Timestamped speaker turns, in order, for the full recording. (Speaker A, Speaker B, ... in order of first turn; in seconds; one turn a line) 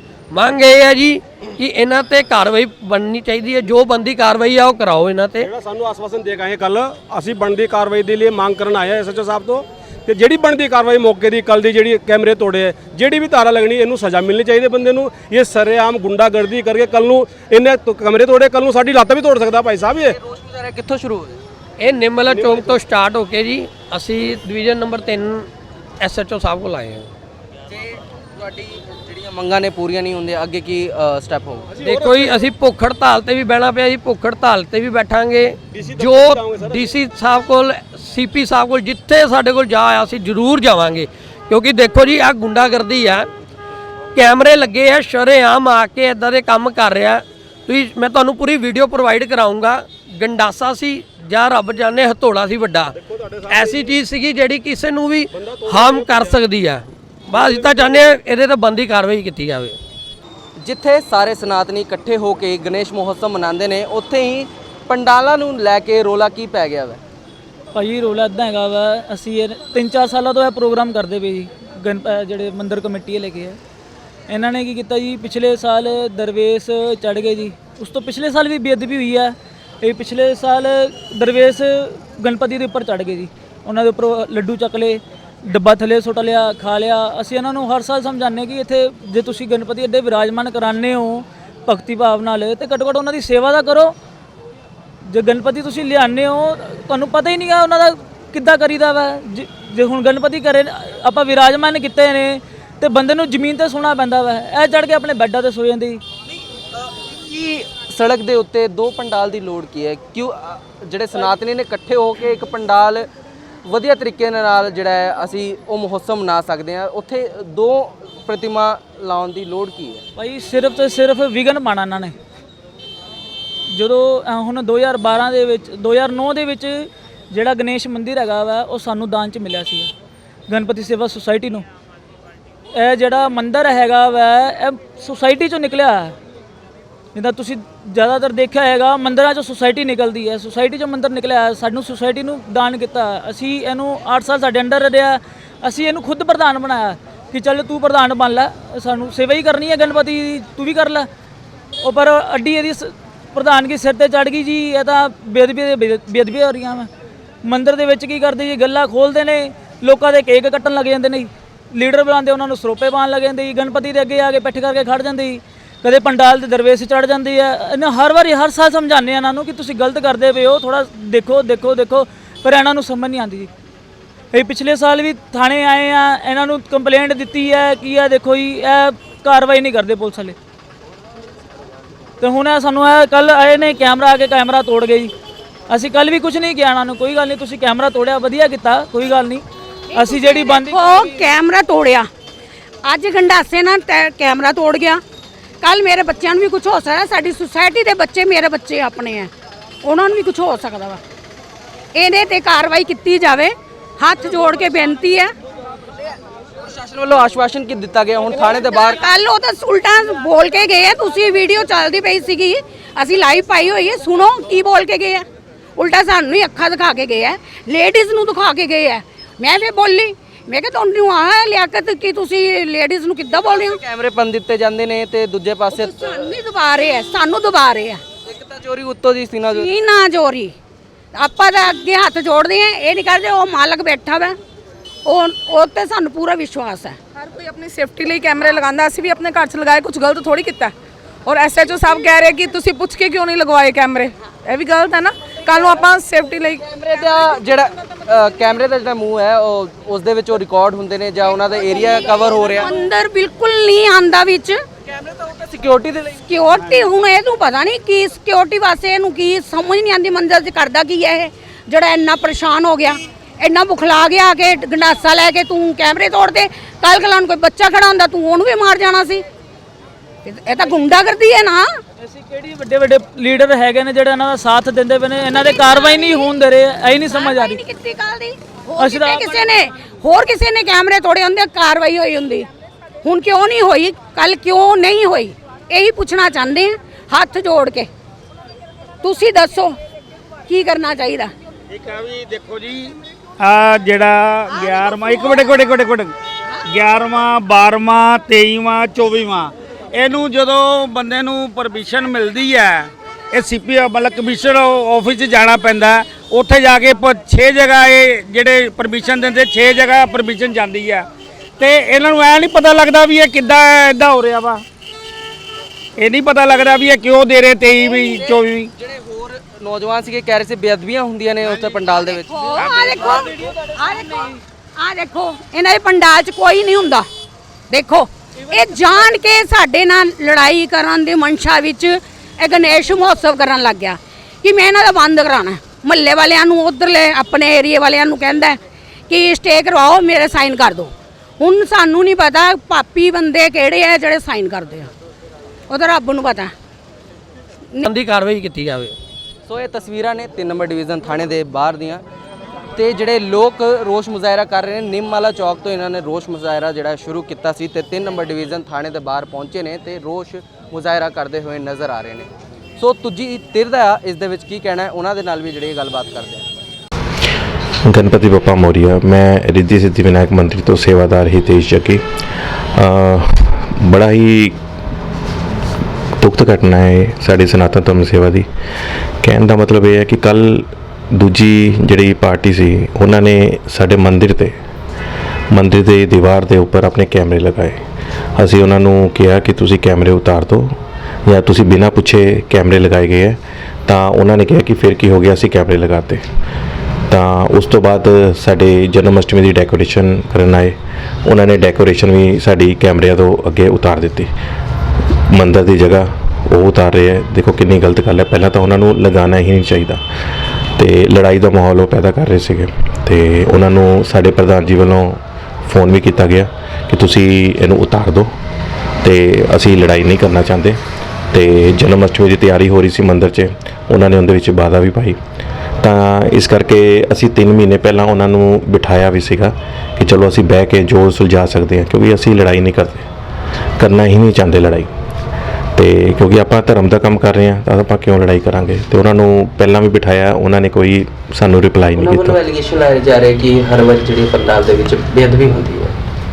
Speaker A: 0.3-5.5
Speaker B: 5.4-20.1
Speaker C: 20.1-21.4
Speaker A: 21.8-25.5
Speaker A: 26.0-27.1
Speaker C: 27.7-31.7
Speaker B: 31.8-32.0
Speaker A: 31.8-43.3
Speaker B: 35.8-36.8
Speaker A: 44.1-53.0
Speaker B: 53.1-53.8
Speaker A: 53.5-59.8
Speaker B: 55.5-56.4
Speaker B: 57.4-57.7
Speaker C: 60.6-67.0
Speaker D: 67.7-73.6
Speaker D: 74.3-94.0
Speaker D: 95.0-106.0
Speaker C: 107.0-113.1
Speaker C: 113.7-120.0
Speaker D: 120.2-122.2
Speaker D: 123.7-129.9
Speaker D: 130.5-131.7
Speaker D: 132.8-136.2
Speaker D: 137.2-151.1
Speaker D: 151.8-156.9
Speaker D: 157.4-173.5
Speaker D: 174.3-180.4
Speaker D: 182.2-185.1
Speaker D: 185.7-191.2
Speaker E: 189.9-192.1
Speaker E: 192.8-195.0
Speaker E: 195.6-199.3
Speaker E: 199.8-201.0
Speaker E: 201.9-205.3
Speaker C: 206.7-209.0
Speaker E: 208.9-215.2
Speaker E: 215.8-223.8
Speaker C: 223.4-226.3
Speaker E: 225.7-228.0
Speaker C: 228.3-229.7
Speaker E: 229.5-230.5
Speaker E: 231.2-234.4
Speaker E: 235.1-237.0
Speaker F: 237.2-240.7
Speaker F: 241.3-246.7
Speaker C: 246.9-252.7
Speaker E: 252.4-254.6
Speaker C: 254.9-256.2
Speaker E: 256.2-269.2
Speaker E: 270.2-271.7
Speaker D: 272.0-277.6
Speaker E: 275.3-276.4
Speaker E: 277.0-282.5
Speaker D: 278.8-279.4
Speaker E: 283.0-287.9
Speaker E: 289.0-289.7
Speaker E: 290.5-291.3
Speaker G: 291.7-296.1
Speaker E: 294.5-295.4
Speaker G: 296.7-311.1
Speaker G: 311.6-314.6
Speaker G: 316.0-318.7
Speaker C: 318.2-322.6
Speaker E: 321.9-327.1
Speaker G: 322.6-323.3
Speaker E: 327.7-338.6
Speaker E: 339.1-344.9
Speaker E: 345.7-346.5
Speaker A: 347.8-348.9
Speaker C: 349.5-352.0
Speaker C: 352.8-366.5
Speaker H: 367.9-372.0
Speaker H: 372.8-374.6
Speaker H: 376.2-378.5
Speaker H: 379.2-384.6
Speaker H: 385.5-387.8
Speaker H: 388.4-396.2
Speaker H: 397.1-404.3
Speaker H: 405.3-410.0
Speaker H: 410.8-418.3
Speaker H: 419.0-420.8
Speaker H: 421.3-425.2
Speaker H: 425.8-433.1
Speaker H: 433.8-434.9
Speaker H: 435.8-442.4
Speaker I: 441.9-446.0